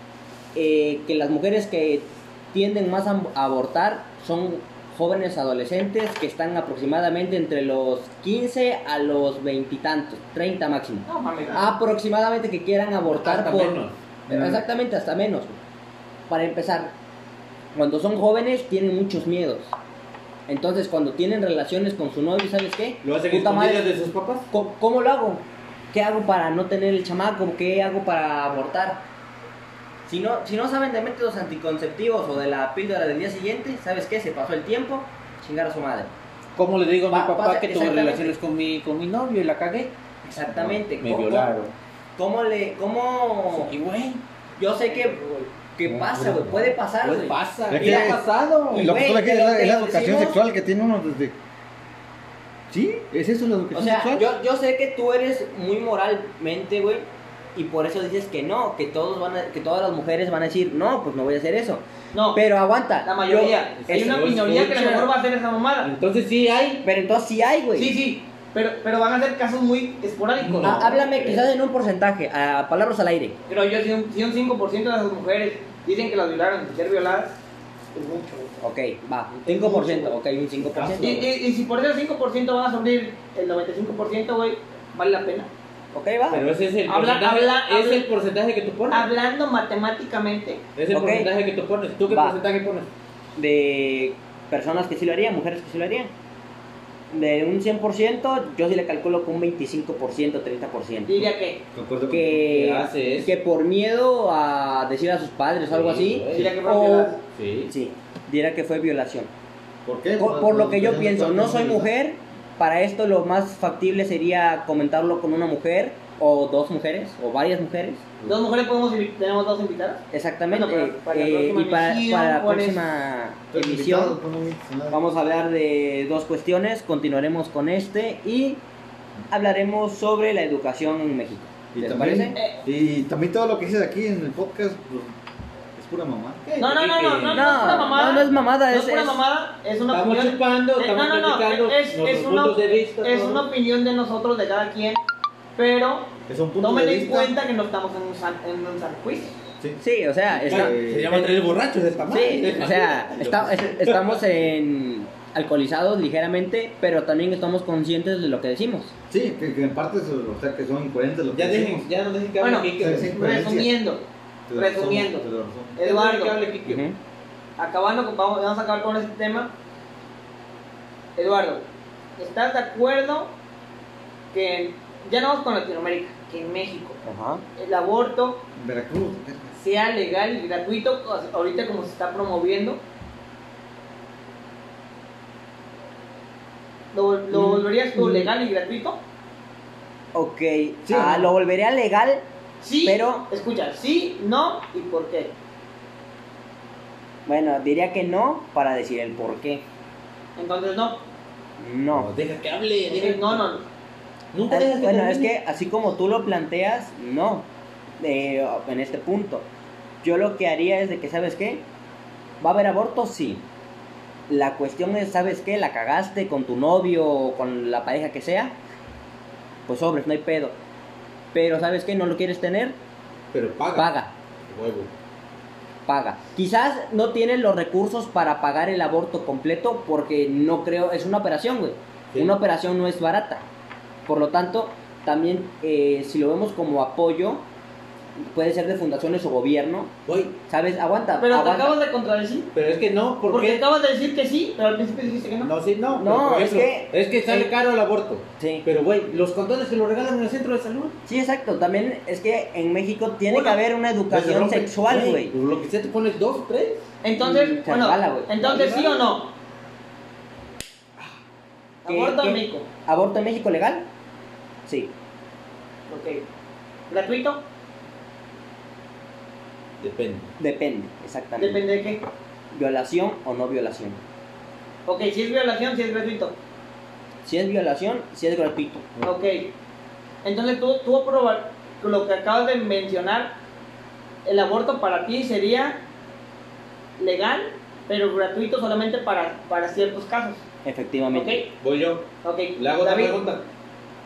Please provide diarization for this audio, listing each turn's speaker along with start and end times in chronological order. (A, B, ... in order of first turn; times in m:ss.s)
0:00.5-0:13.8 A
0:11.0-0:11.7 B
0:13.1-0:14.0 C
0:14.3-0:14.6 D
0:14.3-0:15.6 A
0:16.3-0:16.9 A
0:17.7-0:19.7 A
0:20.5-0:23.9 A
0:23.0-0:24.5 C
0:24.5-0:29.0 A
0:30.0-0:36.1 A
0:36.6-0:40.0 C
0:37.1-0:38.3 A
0:40.2-0:41.5 A
0:40.5-0:41.7 C
0:42.2-0:43.7 A
0:43.5-0:44.2 C
0:44.6-0:45.2 A
0:44.8-0:45.5 B
0:45.8-0:48.2 A
0:45.9-0:46.7 D
0:46.0-0:46.4 C
0:47.0-0:48.9 C
0:47.7-0:51.4 D
0:48.7-0:50.4 A
0:52.7-0:54.3 D
0:53.7-1:04.2 A
1:02.1-1:02.4 B
1:03.0-1:05.9 B
1:03.4-1:05.1 C
1:05.8-1:06.8 C
1:06.8-1:07.9 A
1:07.7-1:10.9 B
1:10.4-1:11.4 C
1:10.6-1:13.4 A
1:13.5-1:17.4 B
1:17.9-1:18.6 B
1:18.6-1:21.2 A
1:19.4-1:20.2 B
1:20.7-1:21.2 D
1:20.9-1:25.5 B
1:25.9-1:26.4 A
1:26.3-1:29.1 C
1:26.9-1:28.1 B
1:28.9-1:30.6 B
1:30.8-1:32.9 C
1:30.9-1:31.3 A
1:32.1-1:32.4 A
1:33.4-1:36.1 A
1:37.1-1:41.3 A
1:41.1-1:41.6 B
1:41.7-1:42.4 D
1:42.1-1:47.2 A
1:42.4-1:43.3 C
1:45.6-1:46.5 C
1:46.3-1:47.2 B
1:47.3-1:47.7 C
1:47.7-1:49.3 A
1:49.8-1:51.9 D
1:50.2-1:58.1 A
1:58.2-2:02.8 B
2:00.1-2:04.2 A
2:03.5-2:05.0 D
2:04.9-2:08.6 A
2:09.3-2:12.4 A
2:11.7-2:15.2 D
2:12.3-2:12.6 B
2:15.7-2:16.4 D
2:16.4-2:17.8 C
2:16.6-2:25.0 B
2:17.3-2:19.2 A
2:19.9-2:23.4 C
2:25.6-2:29.4 B
2:26.3-2:27.3 D
2:29.6-2:31.3 D
2:29.8-2:30.7 A
2:30.4-2:34.2 C
2:32.1-2:38.9 A
2:39.1-2:41.9 D
2:41.3-2:43.1 C
2:42.4-2:44.0 B
2:42.8-2:43.7 D
2:44.5-2:45.7 D
2:44.6-2:45.2 B
2:45.8-2:46.4 B
2:45.8-2:46.8 C
2:46.6-2:47.0 A
2:47.6-2:49.5 B
2:51.2-2:51.6 B
2:52.2-2:53.3 B
2:54.3-2:57.0 B
2:57.0-2:57.4 A
2:57.6-2:58.4 B
2:58.6-2:59.6 D
2:59.6-3:02.8 B
3:06.9-3:09.0 B
3:07.3-3:08.3 A
3:10.1-3:12.2 A
3:10.9-3:11.2 C
3:10.9-3:11.2 D
3:12.6-3:15.3 B
3:12.8-3:13.3 A
3:17.2-3:19.6 A
3:20.4-3:21.0 B
3:21.6-3:22.1 A
3:21.9-3:23.5 C
3:22.9-3:23.6 B
3:24.3-3:25.4 C
3:24.5-3:29.5 A
3:30.0-3:31.7 A
3:32.4-3:33.4 A
3:34.3-3:38.6 A
3:39.7-3:40.6 A
3:41.3-3:42.8 A
3:43.3-3:43.9 C
3:43.7-3:44.1 A
3:44.5-3:44.9 C
3:45.8-3:53.5 A
3:54.0-3:57.5 A
3:58.2-3:59.9 A
4:00.0-4:00.4 C
4:00.5-4:01.8 A
4:01.2-4:02.5 B
4:02.5-4:03.6 C
4:03.3-4:05.5 B
4:05.4-4:11.0 C
4:05.9-4:07.5 A
4:08.4-4:08.6 A
4:11.0-4:15.3 A
4:13.3-4:13.6 B
4:14.1-4:14.7 D
4:14.2-4:16.9 C
4:17.0-4:19.3 B
4:17.2-4:18.6 A
4:18.4-4:19.0 C
4:21.8-4:22.7 B
4:21.8-4:23.9 A
4:24.6-4:24.9 A
4:25.9-4:26.2 B
4:26.9-4:27.4 B
4:29.8-4:30.3 C
4:30.4-4:31.6 A
4:31.4-4:32.0 B
4:32.5-4:34.0 A
4:34.8-4:36.4 B
4:37.2-4:38.9 A
4:39.0-4:39.5 B
4:40.2-4:43.3 B
4:44.2-4:45.8 B
4:47.0-4:50.4 B
4:50.6-4:51.4 A
4:51.1-4:51.5 B
4:51.6-4:53.5 C
4:52.2-4:53.2 B